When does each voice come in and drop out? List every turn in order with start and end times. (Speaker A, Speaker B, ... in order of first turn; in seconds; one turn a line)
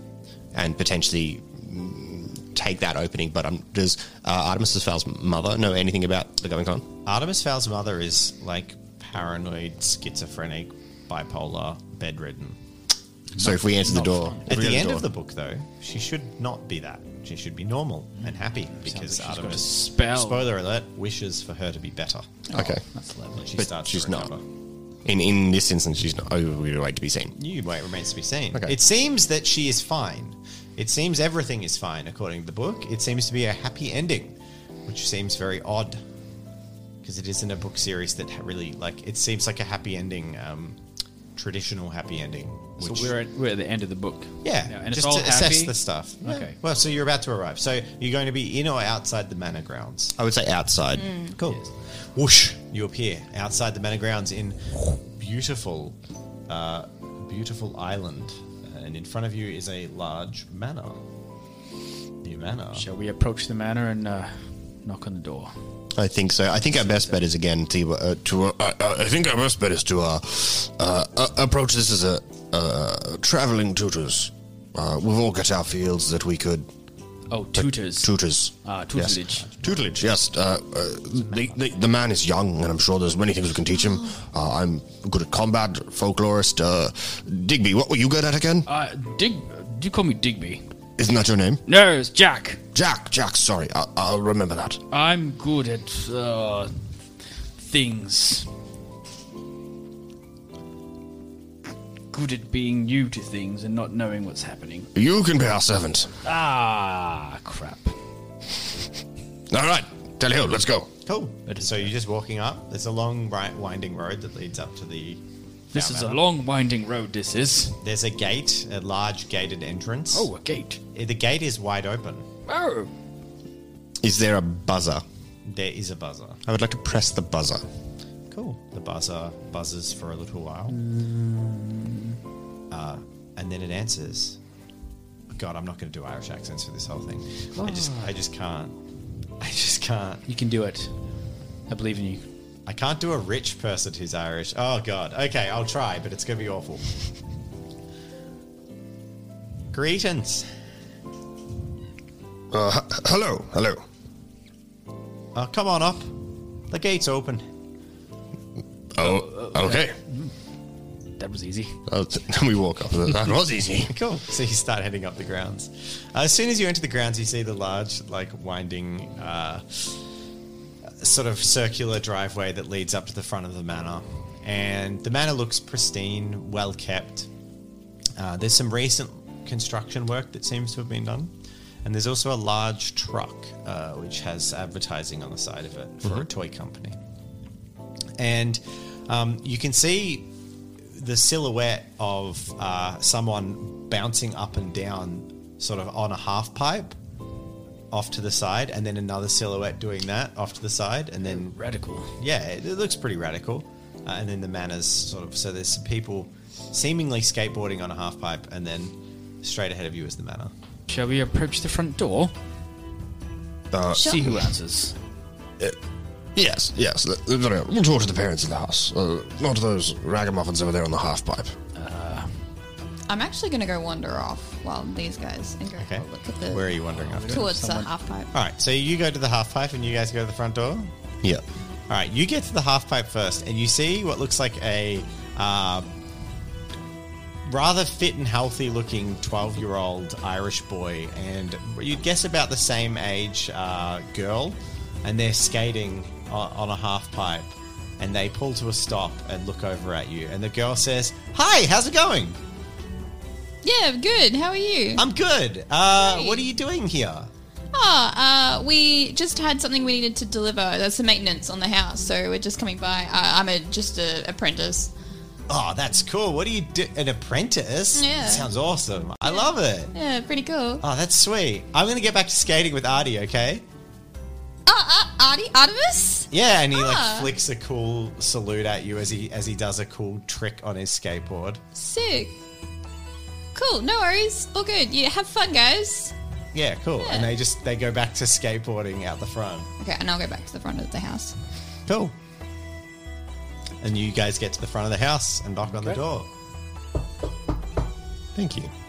Speaker A: 0.5-6.8
Speaker B: 7.0-12.6
Speaker C: 13.3-14.6
Speaker A: 13.4-15.1
Speaker B: 14.5-22.3
Speaker C: 18.2-20.5
Speaker C: 22.5-23.5
Speaker A: 22.5-22.8
Speaker B: 23.4-24.4
Speaker A: 23.5-24.3
Speaker A: 25.0-27.3
Speaker B: 27.3-34.4
Speaker B: 34.9-36.0
Speaker B: 37.0-40.8
Speaker B: 41.4-43.1
Speaker C: 42.8-46.6
Speaker B: 44.4-50.1
Speaker A: 50.1-51.2
Speaker D: 51.0-51.3
Speaker B: 51.3-56.0
Speaker B: 56.5-61.0
Speaker B: 62.2-62.9
Speaker C: 62.7-65.5
Speaker A: 66.0-76.7
Speaker C: 77.3-78.1
Speaker A: 77.5-88.7
Speaker C: 78.6-79.6
Speaker B: 79.4-79.8
Speaker C: 88.7-90.6
Speaker A: 91.0-91.6
Speaker C: 91.7-92.6
Speaker A: 92.7-94.8
Speaker C: 94.9-96.7
Speaker C: 97.6-98.5
Speaker C: 102.1-104.9
Speaker A: 104.9-106.1
Speaker C: 106.2-107.9
Speaker A: 109.5-110.9
Speaker B: 111.0-115.2
Speaker C: 111.5-111.9
Speaker B: 115.7-116.2
Speaker C: 115.7-117.8
Speaker B: 117.8-120.3
Speaker C: 120.1-120.8
Speaker B: 120.9-122.2
Speaker C: 122.5-122.9
Speaker A: 124.0-125.0
Speaker B: 125.4-126.4
Speaker A: 126.4-127.6
Speaker B: 128.3-130.8
Speaker C: 130.7-132.2
Speaker B: 132.7-134.4
Speaker B: 135.3-138.7
Speaker C: 137.6-138.1
Speaker B: 139.4-140.2
Speaker C: 140.3-140.9
Speaker C: 141.7-142.2
Speaker B: 142.7-146.9
Speaker B: 149.7-150.5
Speaker A: 152.5-153.8
Speaker B: 155.3-156.2
Speaker B: 156.7-157.4
Speaker A: 158.9-160.0
Speaker C: 159.0-160.3
Speaker C: 161.2-161.8
Speaker A: 161.9-163.9
Speaker B: 163.8-170.0
Speaker B: 170.9-177.3
Speaker B: 178.2-181.3
Speaker B: 181.8-187.0
Speaker B: 188.2-190.3
Speaker B: 190.9-196.9
Speaker B: 197.9-201.6
Speaker C: 201.2-202.1
Speaker B: 202.2-210.5
Speaker C: 210.9-212.3
Speaker A: 213.7-214.5
Speaker C: 213.9-214.9
Speaker D: 213.9-214.2
Speaker A: 216.3-221.5
Speaker C: 221.7-222.4
Speaker D: 223.1-226.7
Speaker B: 225.8-227.4
Speaker C: 226.9-227.9
Speaker D: 227.3-228.3
Speaker B: 228.3-230.9
Speaker B: 231.9-235.9
Speaker B: 237.4-252.4
Speaker D: 253.6-255.0
Speaker B: 255.0-257.3
Speaker D: 256.0-256.4
Speaker D: 257.7-264.9
Speaker B: 265.5-269.9
Speaker D: 267.9-268.5
Speaker D: 269.2-270.8
Speaker B: 270.8-273.6
Speaker D: 274.6-277.3
Speaker B: 276.3-281.6
Speaker D: 281.7-282.4
Speaker D: 283.5-286.1
Speaker B: 286.5-289.7
Speaker D: 287.0-287.4
Speaker D: 289.8-291.3
Speaker B: 291.9-292.1
Speaker B: 293.8-296.3
Speaker C: 295.7-296.0
Speaker A: 298.3-298.7